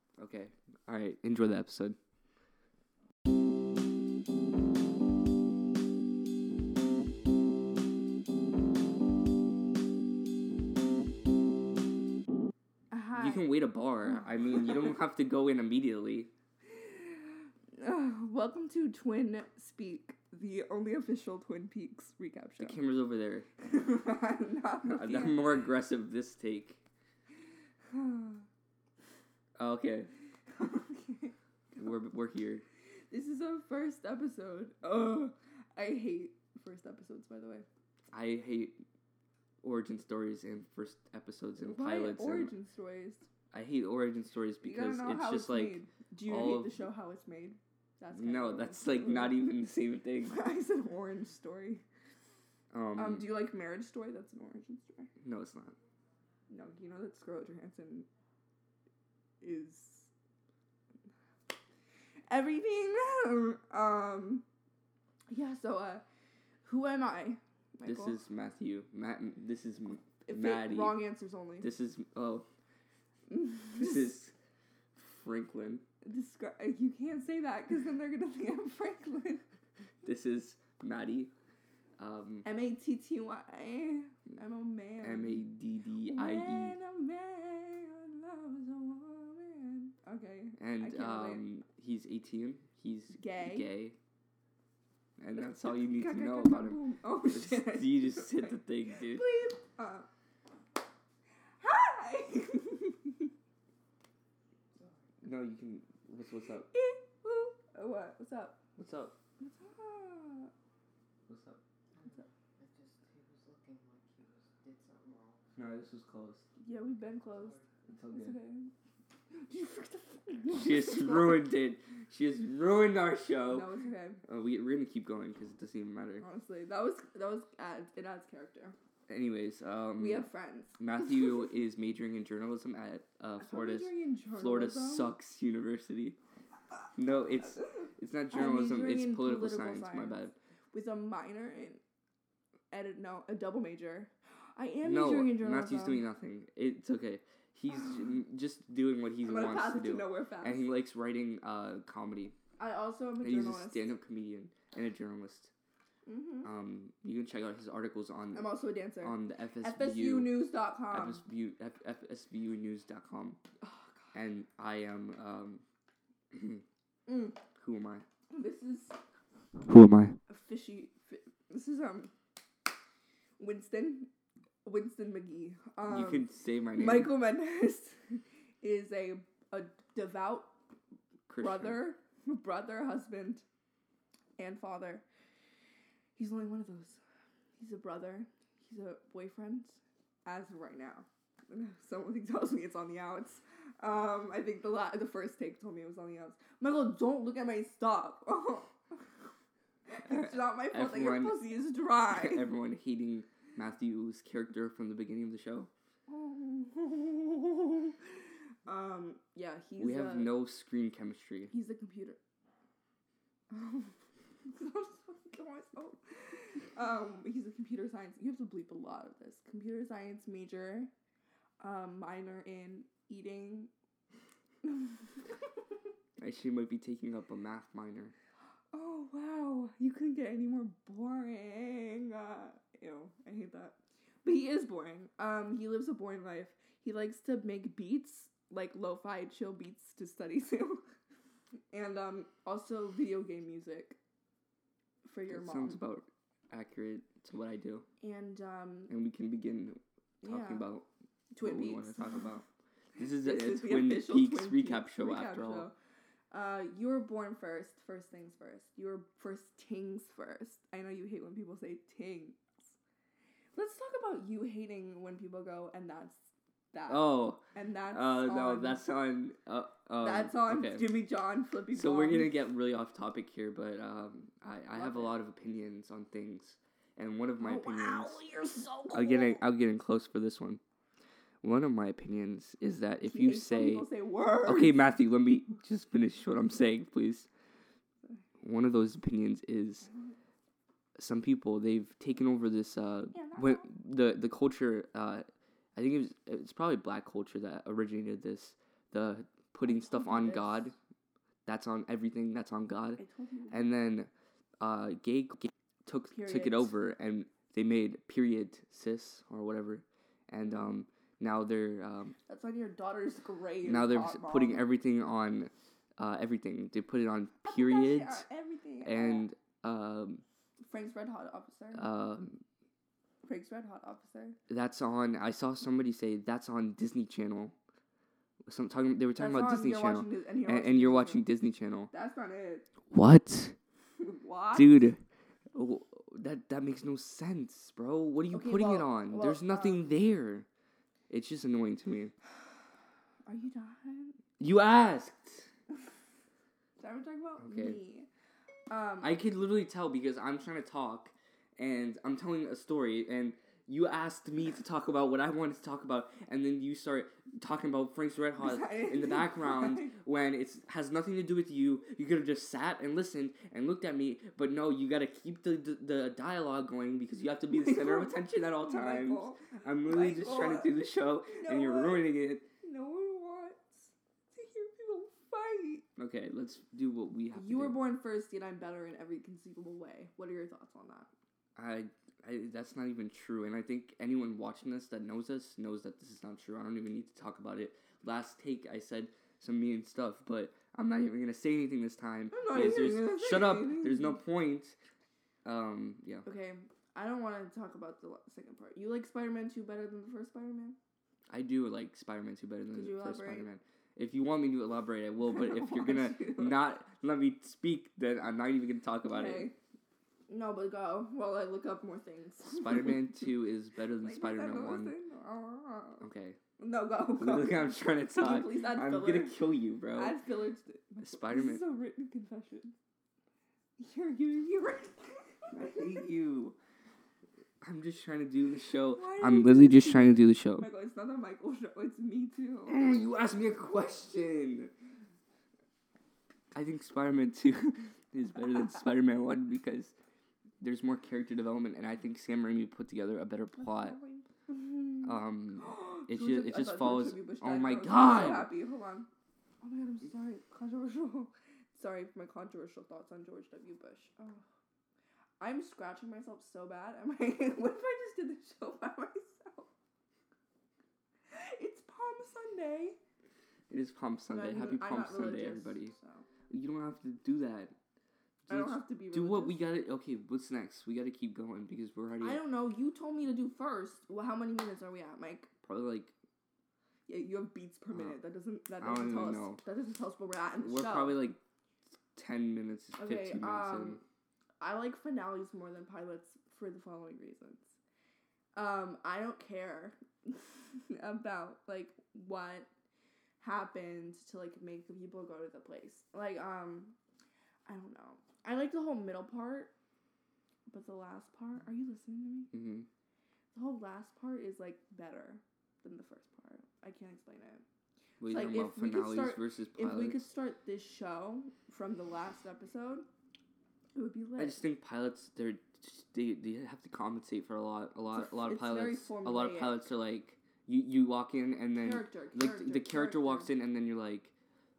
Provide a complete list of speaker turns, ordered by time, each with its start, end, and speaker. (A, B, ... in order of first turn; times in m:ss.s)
0:00.2-0:02.0 A
0:12.9-0:13.5 B
0:13.2-0:16.3 A
0:16.7-0:17.0 B
0:17.8-0:22.8 B
0:22.6-0:23.5 A
0:23.6-0:25.6 B
0:24.8-0:26.8 A
0:27.9-0:28.4 B
0:29.6-0:30.1 A
0:30.6-0:31.4 B
0:31.8-0:32.6 A
0:33.1-0:37.7 B
0:38.1-0:38.8 A
0:39.6-0:42.5 A
0:41.6-0:43.3 B
0:43.5-0:46.8 A
0:44.6-0:49.4 B
0:48.2-0:50.4 A
0:50.3-0:51.8 B
0:52.7-0:53.3 A
0:53.0-0:55.1 B
0:55.2-0:55.8 A
0:56.5-0:58.1 B
0:59.4-1:00.1 B
1:02.3-1:04.4 B
1:05.3-1:06.0 B
1:06.6-1:08.2 B
1:07.8-1:11.0 A
1:10.3-1:11.7 B
1:11.6-1:12.5 A
1:13.3-1:14.0 B
1:13.7-1:14.3 A
1:15.0-1:15.8 A
1:16.0-1:19.4 B
1:20.0-1:21.3 A
1:22.0-1:22.4 A
1:22.4-1:25.4 B
1:25.0-1:26.8 A
1:26.1-1:31.4 B
1:30.6-1:34.0 A
1:33.2-1:33.7 B
1:35.2-1:39.3 A
1:35.7-1:40.1 B
1:41.6-1:43.3 B
1:44.8-1:45.0 C
1:45.2-1:46.7 A
1:46.7-1:48.6 B
1:48.8-1:49.2 A
1:49.4-1:50.5 B
1:51.3-1:51.6 A
1:52.0-1:55.6 C
1:55.6-1:56.5 A
1:56.6-1:58.7 B
1:57.3-1:57.7 C
1:57.9-1:58.4 A
1:59.3-2:01.4 B
2:00.5-2:03.7 A
2:03.5-2:04.2 B
2:04.2-2:06.2 A
2:06.2-2:08.8 B
2:09.1-2:16.2 A
2:10.0-2:11.4 B
2:13.4-2:15.1 B
2:17.0-2:20.3 A
2:18.3-2:21.8 B
2:22.7-2:26.0 B
2:24.8-2:32.4 A
2:29.2-2:30.7 B
2:32.6-2:33.9 B
2:33.2-2:35.5 A
2:36.1-2:36.5 B
2:36.4-2:40.4 A
2:38.3-2:41.2 B
2:40.9-2:43.4 A
2:43.6-2:44.2 B
2:44.1-2:45.6 A
2:46.3-2:46.6 A
2:47.1-2:47.4 B
2:47.6-2:48.0 A
2:48.3-2:49.0 B
2:49.6-2:50.2 A
2:50.3-2:52.1 B
2:53.4-2:54.1 B
2:54.6-3:00.6 B
2:55.8-2:57.2 A
3:01.3-3:01.9 A
3:01.4-3:03.4 B
3:04.4-3:05.0 B
3:06.2-3:07.0 B
3:07.6-3:19.0 B
3:19.9-3:22.5 B
3:20.1-3:21.4 A
3:22.1-3:25.7 A
3:26.1-3:28.0 B
3:28.7-3:30.4 B
3:29.8-3:31.5 A
3:31.5-3:32.2 B
3:33.5-3:34.0 B
3:34.5-3:40.9 B
3:41.6-3:43.7 B
3:44.6-3:44.9 B
3:46.2-3:48.2 A
3:48.7-4:00.8 B
4:01.7-4:04.0 B
4:05.0-4:05.8 B
4:05.3-4:07.9 A
4:08.0-4:08.9 B
4:08.9-4:10.9 A
4:10.2-4:10.7 B
4:11.3-4:12.1 B
4:11.4-4:12.4 A
4:13.0-4:15.7 A
4:13.0-4:15.7 B
4:16.3-4:22.7 B
4:23.6-4:28.8 B
4:26.9-4:30.9 A
4:30.0-4:32.4 B
4:31.7-4:38.2 A
4:34.8-4:35.2 B
4:37.4-4:39.4 B
4:38.9-4:40.6 A
4:41.4-4:43.9 A
4:43.1-4:44.8 B
4:44.4-4:47.3 A
4:48.4-4:49.9 A
4:51.0-5:00.8 A
4:53.1-4:53.7 B
4:59.6-5:00.7 B
5:01.4-5:04.1 A
5:03.0-5:03.7 B
5:04.6-5:12.2 A
5:06.1-5:06.7 B
5:12.3-5:14.7 B
5:13.6-5:18.2 A
5:17.4-5:19.3 B
5:18.8-5:20.2 A
5:20.6-5:21.9 B
5:21.8-5:22.4 A
5:23.2-5:24.4 B
5:24.5-5:27.6 A
5:28.4-5:31.9 A
5:29.2-5:31.3 B
5:31.9-5:32.6 B
5:32.9-5:33.6 A
5:34.0-5:34.9 B
5:34.5-5:35.0 A
5:35.5-5:40.5 A
5:38.3-5:39.9 B
5:41.1-5:42.1 A
5:43.3-5:44.2 B
5:44.4-5:45.5 A
5:46.8-5:48.1 B
5:47.4-5:47.8 A
5:48.7-5:49.2 B
5:49.0-6:12.5 A
5:58.4-6:00.0 B
6:07.6-6:10.8 B
6:11.4-6:12.1 B
6:12.6-6:15.8 B
6:16.0-6:17.8 A
6:17.3-6:21.1 B
6:21.6-6:34.8 A
6:32.3-6:34.2 B
6:35.4-6:36.3 A
6:36.2-6:40.8 B
6:41.3-6:49.5 A
6:42.7-6:43.5 B
6:45.2-6:46.6 B
6:49.1-6:49.6 B
6:50.3-6:53.2 B
6:52.5-6:55.0 A
6:54.0-6:56.1 B
6:56.0-6:56.4 A
6:56.6-6:59.4 B
6:57.2-7:00.2 A
6:59.9-7:02.8 B
7:01.0-7:01.6 A
7:03.8-7:05.9 B
7:05.5-7:06.6 A
7:07.6-7:10.7 A
7:08.9-7:12.8 B
7:12.7-7:14.7 A
7:16.5-7:19.9 A
7:20.6-7:24.0 A
7:23.6-7:29.1 B
7:25.0-7:28.5 A
7:29.6-7:34.4 B
7:35.4-7:39.7 B
7:41.3-7:43.0 B
7:43.7-7:46.0 A
7:44.3-7:46.3 B
7:46.5-7:47.7 A
7:48.5-7:52.4 A
7:48.5-7:49.7 B
7:52.2-7:55.5 B
7:55.6-7:56.1 A
7:57.1-8:01.3 B
7:58.8-7:59.6 A
8:00.6-8:01.4 A
8:02.2-8:04.0 A
8:03.0-8:04.0 B
8:04.6-8:07.8 B
8:08.6-8:12.7 B
8:13.4-8:17.0 B
8:17.7-8:19.7 B
8:20.7-8:22.5 B
8:22.5-8:22.9 A
8:23.5-8:27.6 B
8:28.2-8:30.2 A
8:28.3-8:33.1 B
8:34.0-8:34.6 B
8:34.4-8:44.3 A
8:38.1-8:39.9 B
8:41.8-8:43.5 B